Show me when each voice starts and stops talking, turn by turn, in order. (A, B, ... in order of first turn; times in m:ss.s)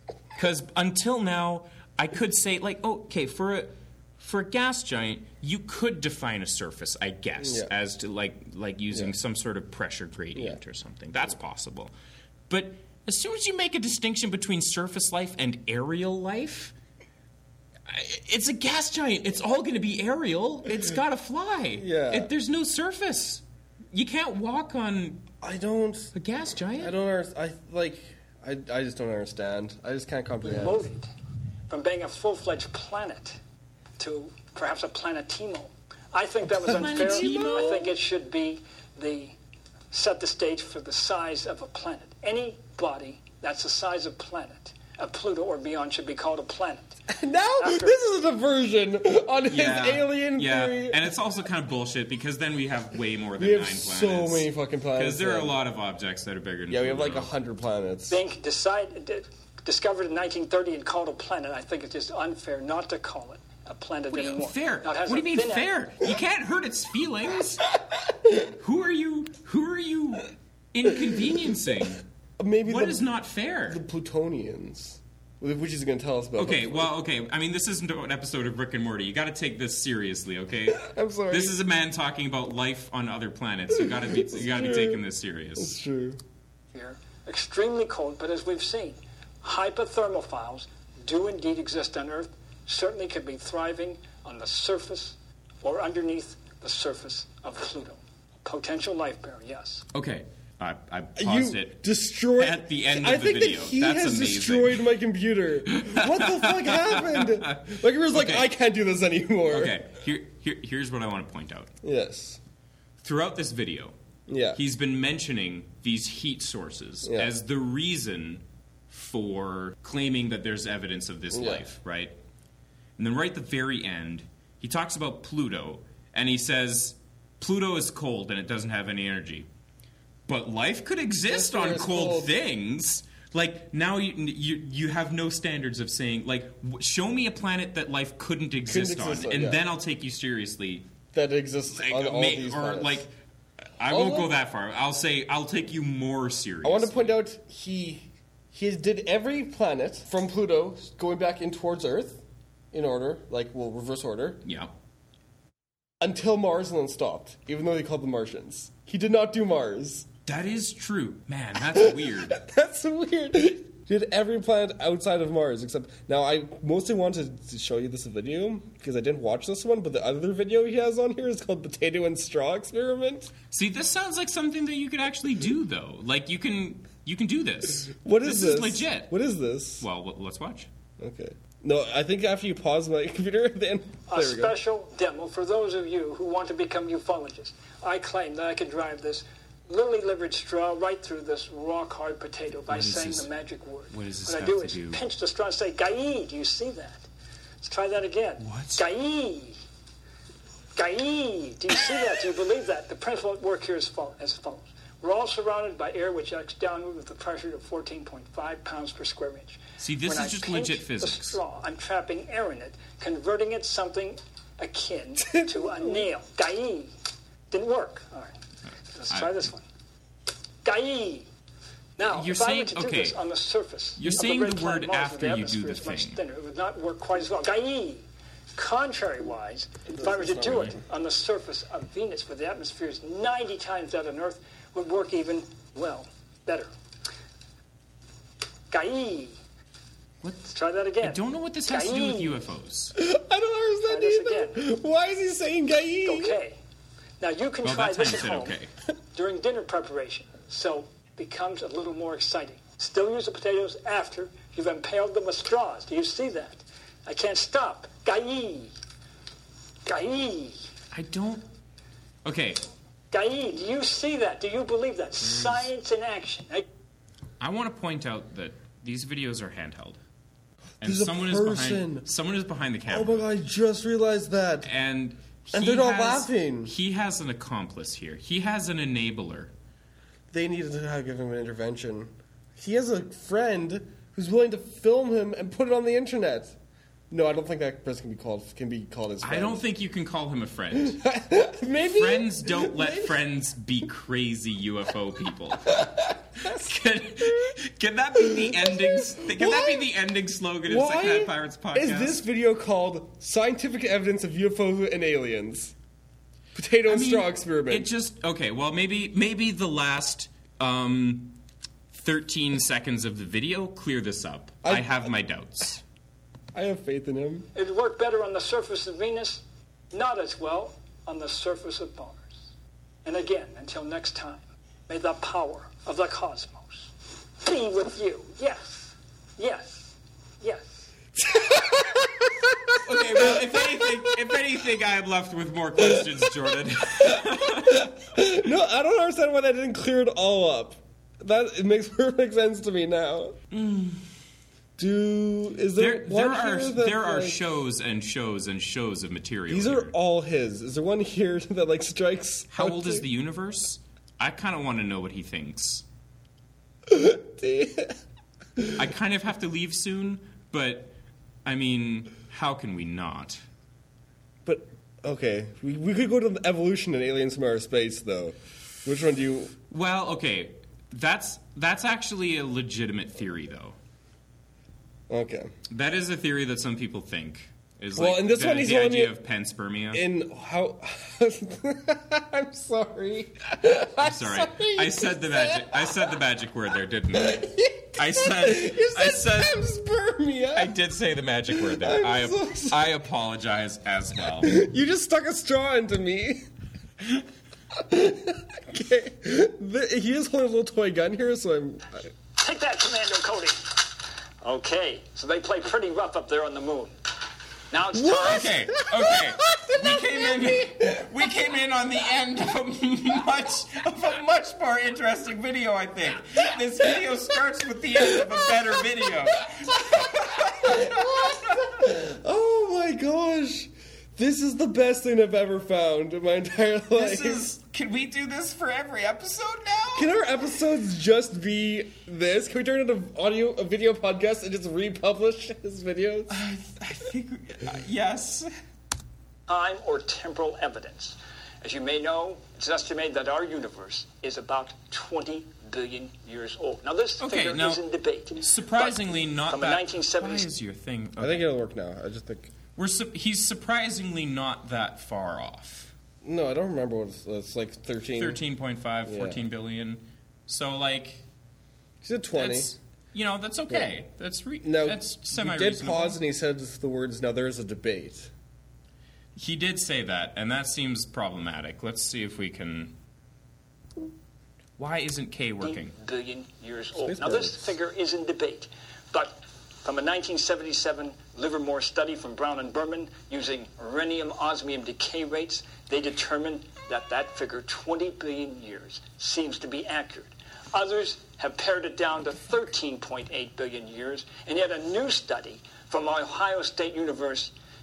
0:00.3-0:11.9 A
0:07.4-0:07.7 B
0:10.3-0:10.6 B
0:12.5-0:16.7 A
0:17.9-0:25.3 A
0:21.8-0:22.3 B
0:25.4-0:26.1 B
0:26.1-0:26.9 A
0:26.8-0:30.9 B
0:30.4-0:31.1 C
0:31.7-0:33.4 C
0:34.0-0:39.4 C
0:36.6-0:37.9 A
0:36.7-0:37.7 B
0:39.9-0:47.0 C
0:47.1-0:51.0 B
0:47.6-0:48.0 C
0:49.5-0:57.3 A
0:53.4-0:55.6 B
0:56.7-0:58.2 B
0:58.1-1:05.7 C
1:04.1-1:07.7 A
1:08.6-1:12.0 A
1:12.4-1:13.0 B
1:12.6-1:13.8 A
1:13.7-1:16.9 B
1:16.4-1:25.7 A
1:20.7-1:21.6 B
1:23.8-1:25.0 B
1:25.6-1:26.2 B
1:26.7-1:39.8 C
1:39.9-1:41.8 A
1:41.2-1:49.7 B
1:42.4-1:44.9 A
1:45.7-1:48.5 A
1:49.5-1:51.7 A
1:51.8-1:52.4 B
1:53.0-1:53.9 A
1:54.3-1:54.6 B
1:54.5-2:02.1 A
1:57.0-1:57.3 B
2:01.3-2:01.6 B
2:03.0-2:09.5 A
2:10.3-2:20.9 A
2:11.2-2:12.4 B
2:18.6-2:19.6 B
2:21.1-2:23.0 B
2:21.8-2:23.1 A
2:23.8-2:27.2 A
2:23.9-2:24.3 B
2:26.6-2:34.4 B
2:34.4-2:34.7 A
2:36.0-2:40.1 B
2:40.2-2:42.4 A
2:41.7-2:53.3 B
2:53.5-2:59.1 A
2:57.9-2:59.8 B
2:59.8-3:00.7 A
3:01.0-3:04.5 B
3:04.1-3:17.0 C
3:12.7-3:13.3 A
3:13.9-3:15.0 A
3:17.6-3:19.6 C
3:18.4-3:18.8 A
3:20.7-3:36.9 C
3:29.8-3:31.4 A
3:35.2-3:36.1 B
3:37.5-3:38.4 C
3:38.9-3:39.6 C
3:40.6-3:41.3 C
3:42.0-3:56.7 C
3:42.0-3:43.2 A
3:44.0-3:46.2 A
3:49.9-3:50.8 B
3:58.7-3:59.4 C
4:00.2-4:02.9 A
4:00.5-4:02.4 C
4:02.9-4:06.4 B
4:03.9-4:04.6 C
4:06.0-4:06.6 C
4:07.2-4:08.6 C
4:07.6-4:08.7 A
4:09.1-4:18.7 C
4:19.8-4:20.6 C
4:20.9-4:21.4 A
4:22.2-4:22.6 A
4:23.1-4:26.6 C
4:25.2-4:25.6 A
4:27.4-4:30.0 A
4:30.8-4:33.2 A
4:30.8-4:32.1 B
4:32.9-4:34.7 B
4:34.6-4:39.5 A
4:35.5-4:36.7 B
4:40.3-4:46.6 B
4:47.1-4:49.6 B
4:49.2-4:51.0 A
4:50.7-4:53.2 B
4:51.8-5:02.2 A
4:55.7-4:56.5 B
4:58.2-4:59.9 B
5:00.7-5:05.7 B
5:06.5-5:07.9 B
5:06.8-5:11.4 A
5:11.9-5:15.8 A
5:14.6-5:15.1 B
5:16.5-5:17.5 B
5:17.5-5:22.4 C
5:23.0-5:30.9 C
5:31.2-5:34.4 B
5:32.8-5:37.9 A
5:35.8-5:43.4 B
5:43.5-5:44.0 A
5:44.8-5:47.4 B
5:45.8-5:49.9 A
5:49.5-5:53.1 B
5:52.5-5:55.8 A
5:56.8-5:58.0 B
5:58.6-5:58.9 B
5:58.7-6:03.4 A
6:04.4-6:09.5 B
6:09.7-6:13.8 A
6:15.1-6:15.5 B
6:15.7-6:20.0 A
6:18.0-6:19.2 B
6:19.9-6:26.1 B
6:24.0-6:29.6 A
6:27.1-6:30.8 B
6:30.5-6:34.6 A
6:31.5-6:33.0 B
6:34.4-6:36.5 B
6:37.7-6:42.1 B
6:42.3-6:47.0 C
6:47.7-6:48.7 C
6:47.9-7:01.5 A
6:48.8-6:50.7 B
7:00.6-7:07.4 B
7:06.9-7:10.1 A
7:09.9-7:16.3 B
7:16.3-7:18.5 A
7:19.5-7:30.5 C
7:27.2-7:27.8 A
7:28.4-7:31.5 A
7:31.2-7:32.5 B
7:32.8-7:35.9 A
7:36.2-7:38.4 B
7:38.2-7:41.2 A
7:39.0-7:39.4 B
7:42.0-7:42.7 B
7:42.3-7:46.2 A
7:44.6-7:48.3 B
7:49.3-7:52.9 A
7:54.8-7:55.9 A
7:55.6-8:17.5 C
7:57.0-7:57.7 B